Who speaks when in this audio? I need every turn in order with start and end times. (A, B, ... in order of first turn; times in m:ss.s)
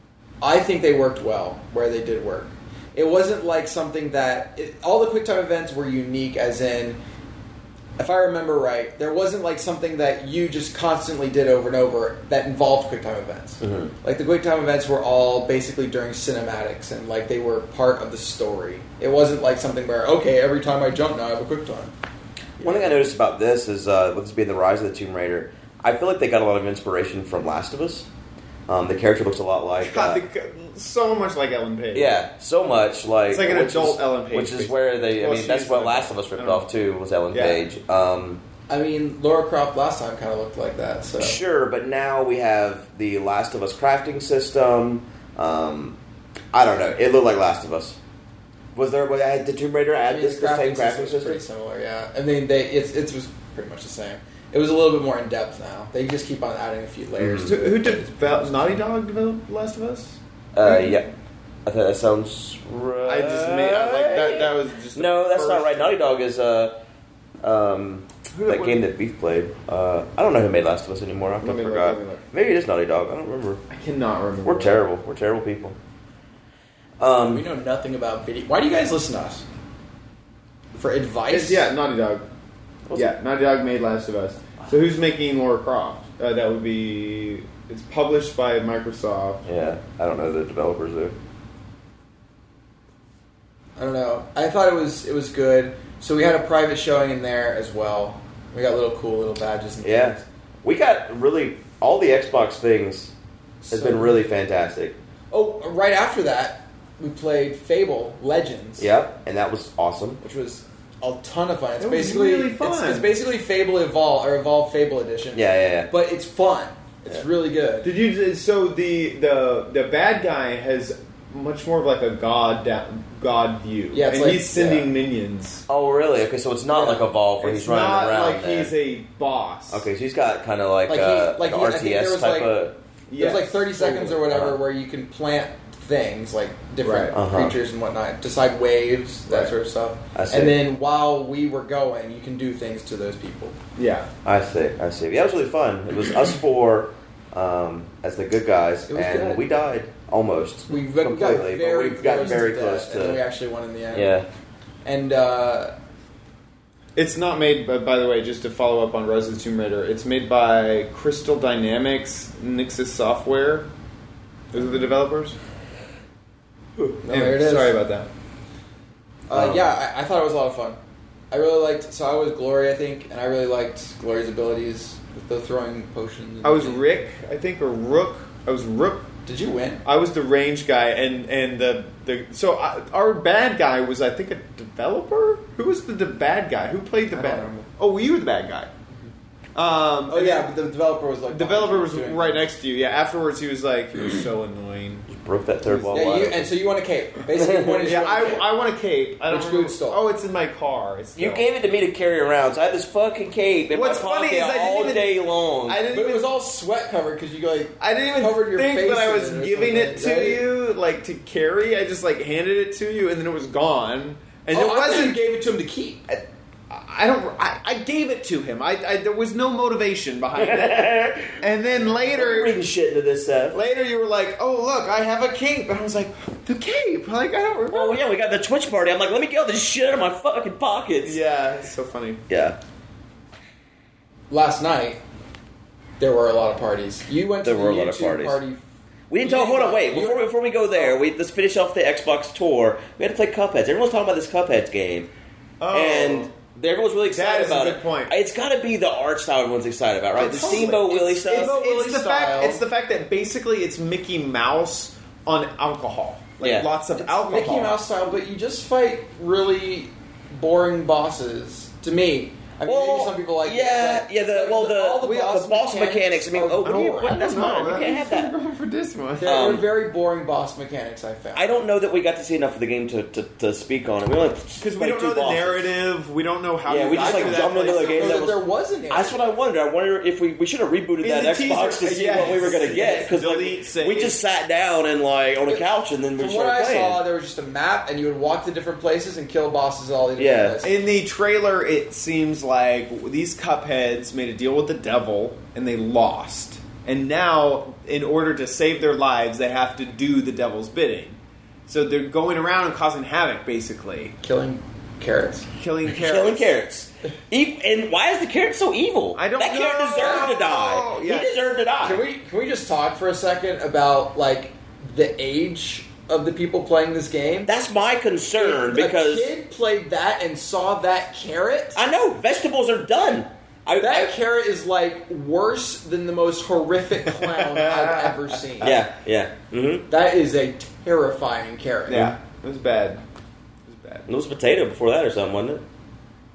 0:00.4-0:07.0 A
0:08.0-0:21.9 A
0:13.6-0:13.9 B
0:22.6-0:23.0 A
0:22.6-0:28.1 B
0:28.7-0:30.2 B
0:29.8-0:32.2 C
0:31.9-0:38.4 B
0:33.3-0:36.6 C
0:37.3-0:37.6 C
0:38.7-0:41.4 A
0:41.2-0:46.0 B
0:46.5-0:48.0 B
0:48.8-0:51.4 B
0:50.1-0:58.8 A
0:57.2-0:57.5 B
0:57.4-1:01.0 C
1:00.6-1:01.1 B
1:01.6-1:06.8 B
1:03.0-1:05.9 C
1:07.4-1:13.6 B
1:08.3-1:08.8 C
1:11.4-1:12.2 C
1:13.7-1:14.8 C
1:14.4-1:15.8 B
1:17.0-1:17.5 B
1:17.2-1:19.4 A
1:20.8-1:21.7 A
1:21.3-1:22.2 C
1:22.9-1:23.1 B
1:22.9-1:29.4 C
1:29.4-1:31.2 B
1:33.8-1:40.2 A
1:39.8-1:43.1 B
1:43.6-1:44.2 A
1:43.7-1:45.0 B
1:45.3-1:48.9 A
1:48.8-1:50.2 B
1:50.2-1:57.9 A
1:51.8-1:53.1 C
1:55.4-1:55.9 B
1:57.8-2:05.7 C
2:03.9-2:04.8 A
2:05.7-2:08.7 B
2:06.7-2:07.1 A
2:07.4-2:09.9 C
2:09.7-2:12.8 B
2:10.9-2:12.5 A
2:13.1-2:14.2 C
2:13.2-2:23.6 A
2:14.3-2:14.6 B
2:16.8-2:17.2 C
2:17.1-2:17.6 B
2:20.2-2:20.6 B
2:23.8-2:24.1 C
2:24.2-2:33.2 B
2:28.9-2:29.4 A
2:30.7-2:34.1 A
2:33.9-2:34.3 B
2:34.8-2:35.7 A
2:37.0-2:43.7 C
2:44.5-2:45.4 C
2:47.0-2:47.8 A
2:47.0-2:48.1 C
2:49.3-2:50.8 A
2:49.3-2:49.7 B
2:51.3-2:56.9 A
2:56.4-2:59.1 C
2:59.3-2:59.8 A
2:59.8-3:08.7 C
3:07.1-3:07.7 A
3:09.6-3:10.5 C
3:10.1-3:12.5 A
3:11.3-3:15.1 C
3:15.1-3:16.6 B
3:15.6-3:16.1 C
3:15.9-3:18.5 A
3:17.4-3:17.9 B
3:17.8-3:21.4 C
3:19.3-3:20.0 A
3:21.2-3:25.8 B
3:23.7-3:25.1 C
3:25.7-3:26.3 C
3:25.9-3:30.4 A
3:27.8-3:35.2 C
3:34.5-3:36.1 A
3:36.1-3:42.6 C
3:40.4-3:43.6 B
3:43.5-3:48.0 C
3:47.7-3:51.2 B
3:51.0-3:52.2 C
3:52.3-3:52.6 B
3:54.3-3:55.0 A
3:56.0-3:58.6 A
3:57.4-3:58.4 B
3:59.1-4:05.1 B
3:59.2-4:00.9 A
4:05.6-4:06.3 C
4:05.7-4:11.5 B
4:07.1-4:08.1 C
4:10.2-4:17.8 C
4:10.2-4:12.6 A
4:16.4-4:16.7 B
4:17.0-4:27.1 A
4:22.6-4:28.3 B
4:26.6-4:29.4 C
4:29.2-4:31.5 A
4:29.2-4:29.7 B
4:31.4-4:35.7 B
4:34.6-4:38.2 C
4:36.7-4:47.0 B
4:37.0-4:39.2 A
4:41.0-4:44.2 C
4:45.5-4:50.8 A
4:50.2-4:50.6 B
4:50.6-5:04.2 C
5:04.2-5:05.5 A
5:05.5-5:06.6 C
5:05.9-5:12.0 B
5:09.2-5:11.4 C
5:10.0-5:10.3 A
5:11.8-5:17.5 A
5:17.5-5:19.3 B
5:18.4-5:21.8 A
5:21.8-5:24.1 B
5:23.8-5:28.8 A
5:27.1-5:28.8 C
5:28.6-5:29.9 B
5:29.9-5:32.2 A
5:31.9-5:33.0 C
5:33.7-5:34.1 C
5:34.1-5:35.6 B